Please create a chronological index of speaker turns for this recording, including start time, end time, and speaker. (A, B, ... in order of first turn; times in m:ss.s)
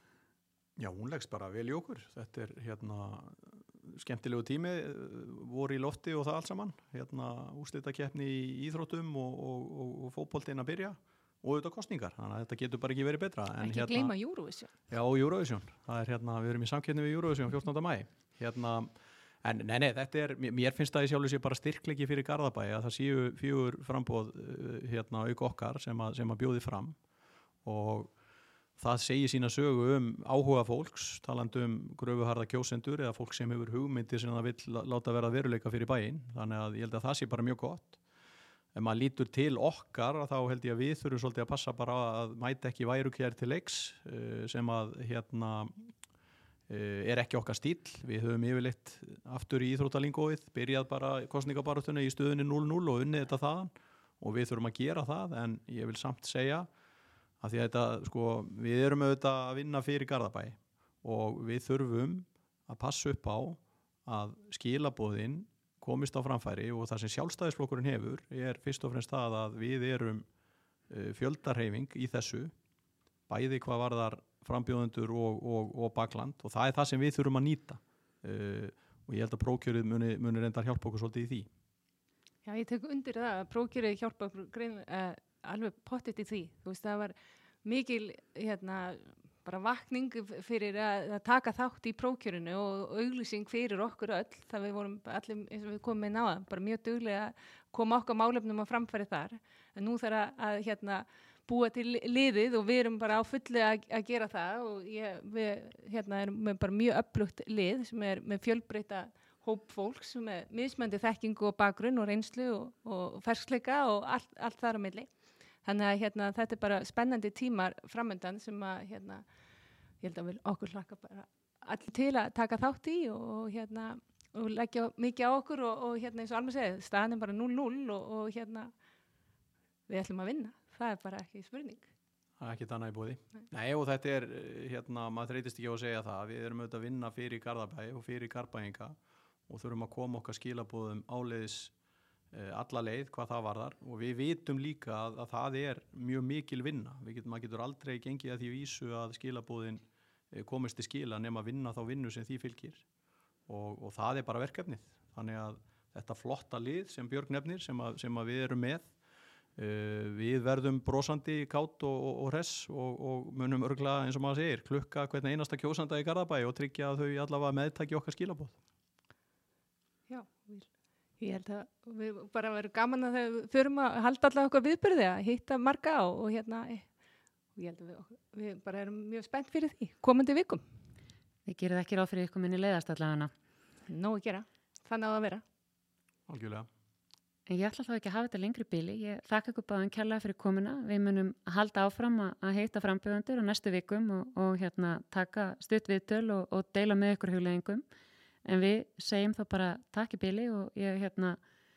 0:00.8-0:14.1 A
0:13.6-0:14.7 B
0:14.9-0:18.9 A
0:19.4-0:27.0 A
0:27.6-0:28.1 A
0:28.8-0:38.0 A
0:38.7-0:45.7 A
0:46.7-0:56.7 A
0:57.4-1:10.2 A
1:10.9-1:12.5 A
1:13.3-1:21.5 A
1:22.4-1:55.1 B
1:55.6-1:59.2 B
2:00.0-2:08.7 B
2:09.9-2:11.9 B
2:12.4-2:18.9 A
2:19.5-2:21.7 A
2:22.3-2:32.8 A
2:33.5-2:38.9 A
2:39.6-2:48.6 A
2:50.1-2:50.7 B
2:51.2-2:56.9 B
2:57.6-3:00.6 B
3:01.5-3:03.3 C
3:03.9-3:05.4 B
3:06.3-3:06.7 A
3:07.5-3:17.8 C
3:18.4-3:21.4 C